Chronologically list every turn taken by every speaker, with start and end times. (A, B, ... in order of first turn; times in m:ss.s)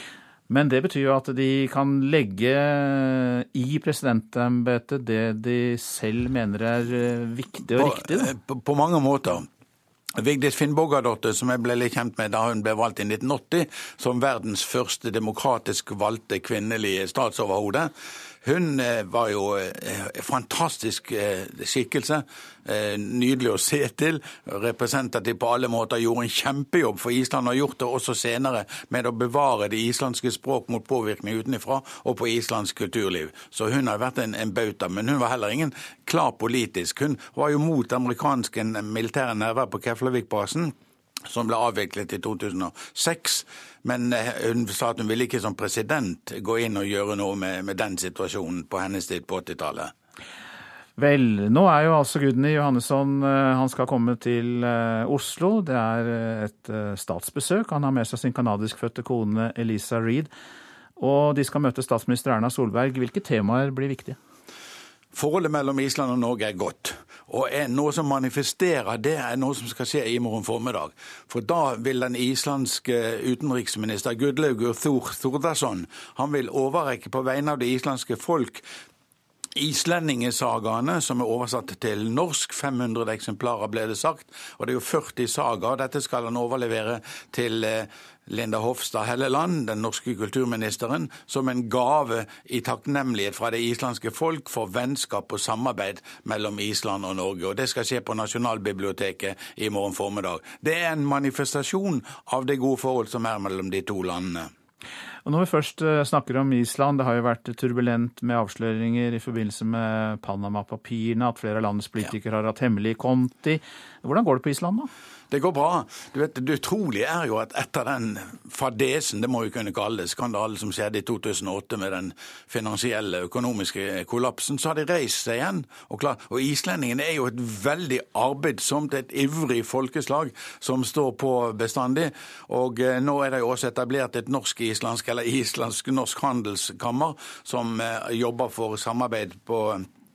0:00.5-0:08.3 A
0:07.8-0:09.5 B
0:10.2-0:17.9 B
0:18.4-0:40.7 B
0:41.3-0:49.9 B
0:51.0-1:00.3 A
1:01.0-1:04.2 A
1:05.1-1:18.7 B
1:19.6-1:44.5 B
1:45.3-1:54.9 A
1:55.3-2:19.9 B